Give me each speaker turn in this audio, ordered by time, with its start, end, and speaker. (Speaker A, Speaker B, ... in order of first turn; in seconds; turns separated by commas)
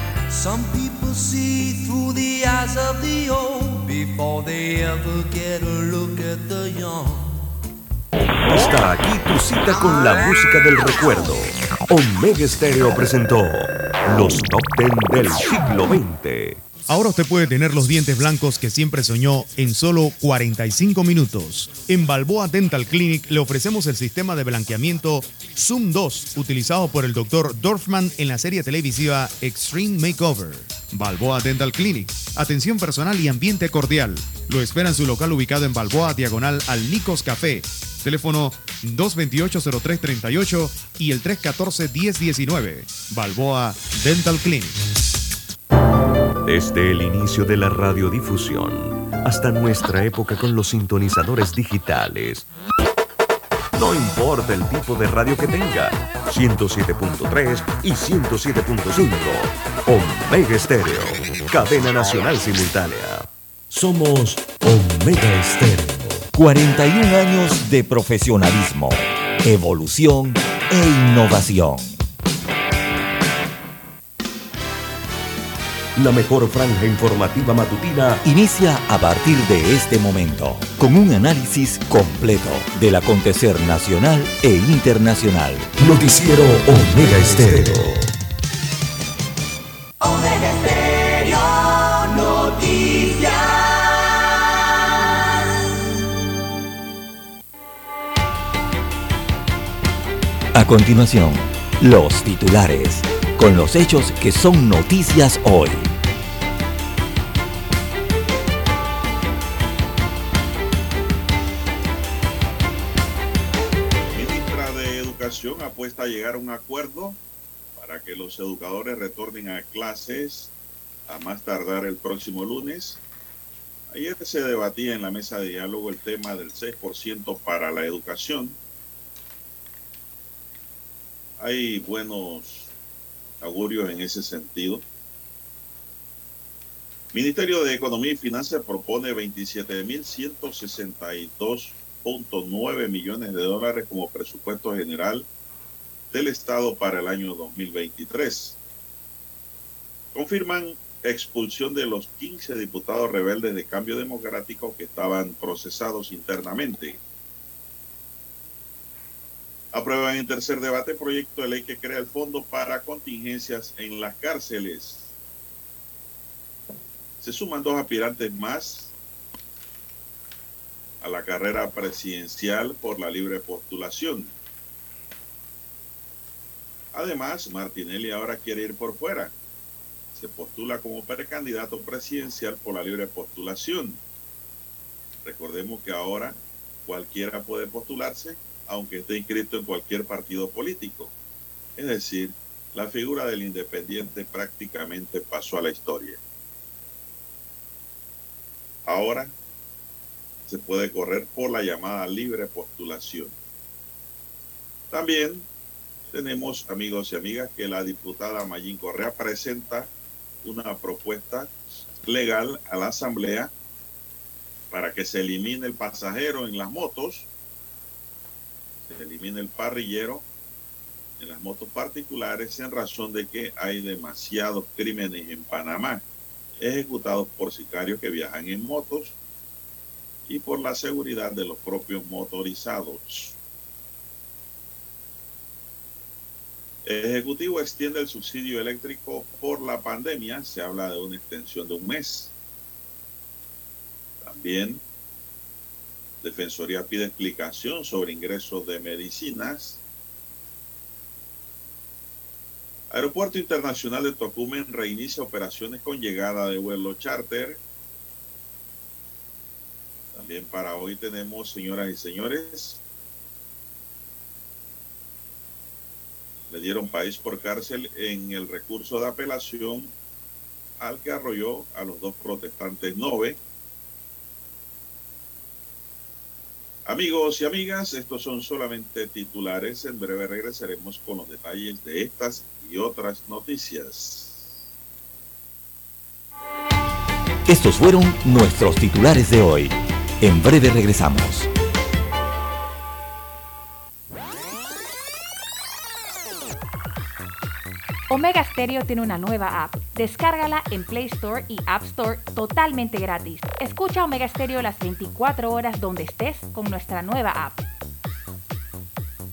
Speaker A: 0.3-7.5, Speaker B: 8.2-16.6, Speaker C: 16.9-44.8, Speaker B: 46.4-52.4, Speaker B: 53.8-66.3, Speaker D: 66.3-72.0, Speaker B: 76.0-78.2, Speaker D: 78.2-85.7, Speaker B: 85.8-88.1, Speaker D: 100.5-105.9, Speaker E: 114.1-117.2, Speaker E: 117.8-120.5, Speaker E: 121.1-123.0, Speaker E: 123.9-128.6, Speaker E: 131.4-132.7, Speaker E: 133.4-134.8, Speaker E: 137.1-145.3, Speaker E: 146.1-148.6, Speaker E: 150.1-157.0, Speaker E: 159.7-165.1, Speaker E: 167.2-168.9, Speaker E: 171.0-174.3, Speaker E: 176.9-179.3, Speaker E: 180.1-184.0, Speaker E: 185.2-191.1, Speaker E: 191.8-196.2, Speaker E: 198.8-199.3, Speaker E: 200.5-203.3, Speaker E: 204.9-205.5, Speaker E: 206.1-209.9, Speaker E: 210.4-211.5, Speaker E: 212.0-213.5, Speaker E: 214.7-217.3, Speaker E: 218.8-220.2, Speaker E: 221.2-226.0, Speaker E: 226.6-229.1, Speaker E: 230.3-233.3, Speaker E: 236.8-242.3, Speaker E: 244.2-244.8, Speaker E: 246.2-249.8, Speaker E: 252.9-257.6, Speaker E: 260.1-262.8, Speaker E: 266.5-269.9, Speaker E: 270.8-273.4, Speaker E: 276.9-284.5, Speaker D: 287.4-291.5, Speaker F: 298.1-307.6